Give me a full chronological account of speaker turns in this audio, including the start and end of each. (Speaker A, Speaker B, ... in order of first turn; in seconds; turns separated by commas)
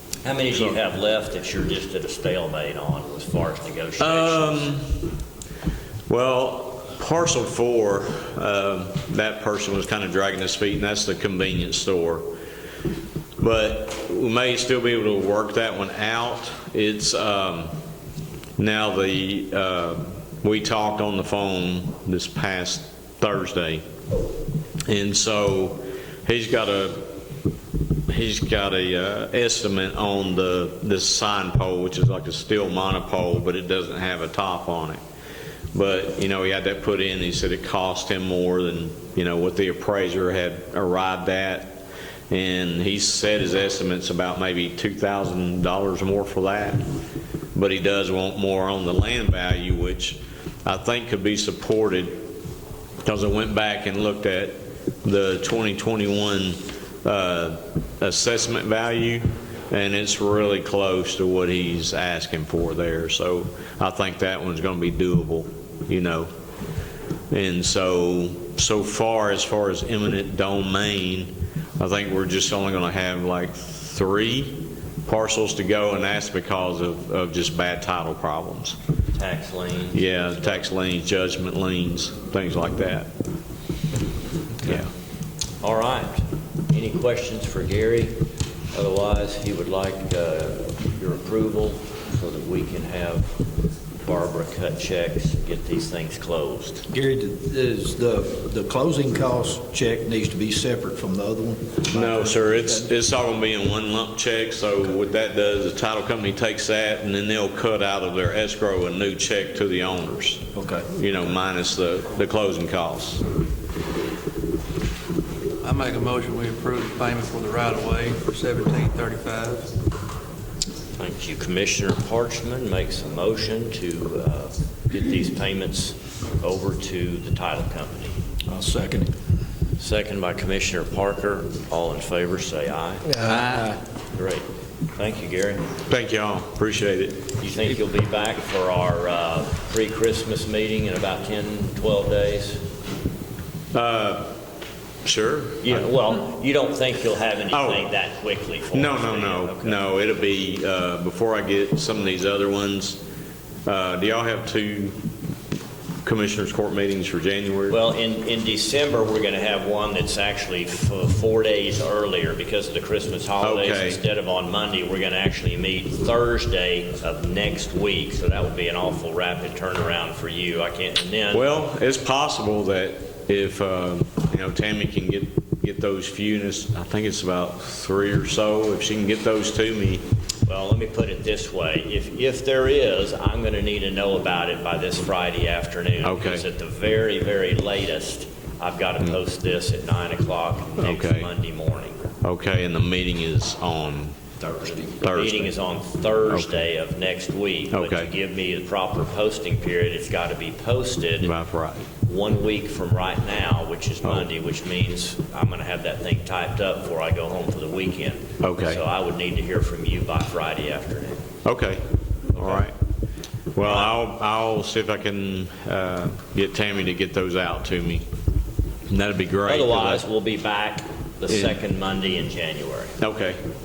Speaker A: 0.2-4.6, Speaker B: 0.5-0.8, Speaker B: 4.0-5.0, Speaker B: 6.1-12.3, Speaker B: 13.4-17.7, Speaker B: 18.6-23.8, Speaker B: 24.9-27.1, Speaker B: 28.1-35.0, Speaker B: 35.7-46.8, Speaker B: 47.5-52.2, Speaker B: 53.0-66.3, Speaker B: 67.3-78.8, Speaker A: 79.1-80.6, Speaker B: 79.9-83.1, Speaker B: 84.6-84.9, Speaker A: 85.6-93.3, Speaker A: 94.0-96.8, Speaker C: 96.9-102.9, Speaker B: 101.9-113.2, Speaker C: 110.5-110.8, Speaker D: 115.6-119.7, Speaker A: 121.0-128.2, Speaker C: 128.5-129.2, Speaker A: 129.8-133.2, Speaker C: 133.1-133.8, Speaker A: 134.2-134.4, Speaker A: 134.9-135.8, Speaker B: 135.9-137.2, Speaker A: 137.4-142.6, Speaker B: 143.7-144.4, Speaker B: 145.1-145.9, Speaker A: 145.6-149.8, Speaker B: 147.5-147.9, Speaker B: 148.7-153.0, Speaker B: 153.7-155.0, Speaker B: 156.1-157.8, Speaker A: 157.7-171.4, Speaker B: 163.4-164.0, Speaker B: 171.3-180.0, Speaker A: 180.5-192.0, Speaker B: 186.0-186.5, Speaker B: 190.8-191.3, Speaker B: 192.2-194.2, Speaker A: 194.7-201.3, Speaker B: 195.0-195.5, Speaker B: 196.3-196.6, Speaker B: 197.7-198.1, Speaker B: 201.2-201.9, Speaker A: 202.1-211.2, Speaker B: 208.4-208.8, Speaker B: 211.4-211.8, Speaker B: 212.4-212.7, Speaker A: 212.4-212.6, Speaker B: 213.6-218.1, Speaker A: 213.6-214.0, Speaker B: 218.9-220.0, Speaker A: 219.5-223.0, Speaker B: 221.3-221.6, Speaker B: 223.0-223.4